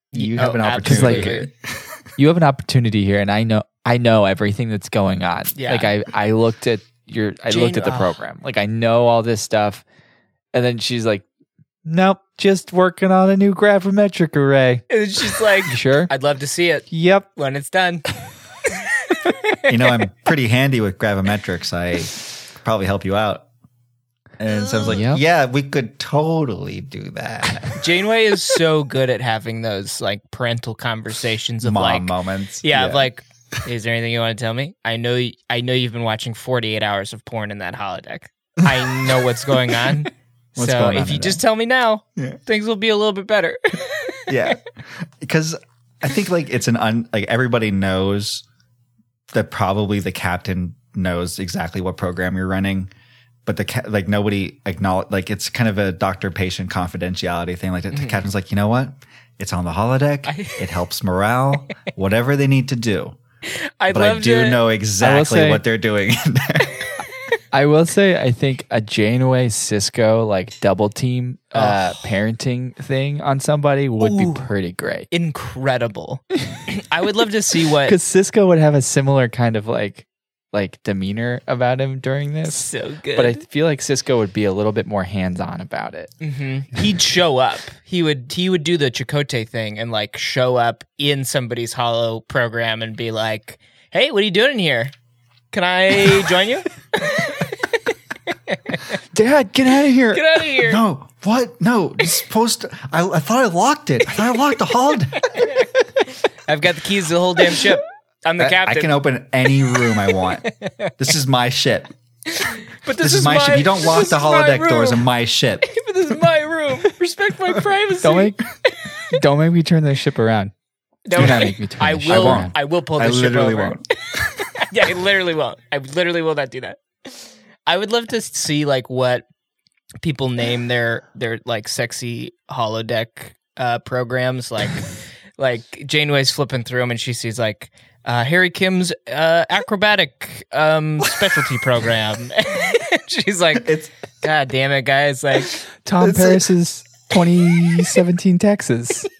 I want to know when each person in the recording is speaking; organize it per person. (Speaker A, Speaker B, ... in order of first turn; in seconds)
Speaker A: 0.1-1.5, 19.7-23.5, 24.4-27.8, 31.6-33.1, 38.6-39.1, 40.6-41.4, 44.3-48.5, 49.3-52.9, 53.5-63.2, 63.9-66.8, 100.6-105.5, 108.4-110.5, 111.0-111.9, 113.0-115.7, 121.2-121.5, 122.1-123.8, 143.6-143.9, 146.0-146.5
Speaker B: 0.1-1.5, 5.6-5.9, 7.5-8.2, 14.9-18.1, 19.1-20.1, 24.5-25.0, 27.8-44.5, 57.9-58.2, 60.3-60.7, 63.8-64.6, 71.5-72.1, 74.0-74.5, 75.1-78.0, 82.5-83.4, 86.2-94.9, 95.5-99.0, 100.1-100.8, 105.2-108.9, 110.4-110.9, 112.3-115.0, 115.6-118.8, 121.1-123.8, 124.6-129.2, 130.0-145.6
Speaker C: 0.8-1.3, 2.2-9.8, 10.5-11.2, 11.9-14.8, 15.7-16.1, 16.9-17.3, 24.9-25.2, 65.0-65.6, 67.5-75.1, 77.8-86.1, 99.1-100.2, 118.0-118.4, 119.1-120.5, 121.1-122.5, 145.8-149.1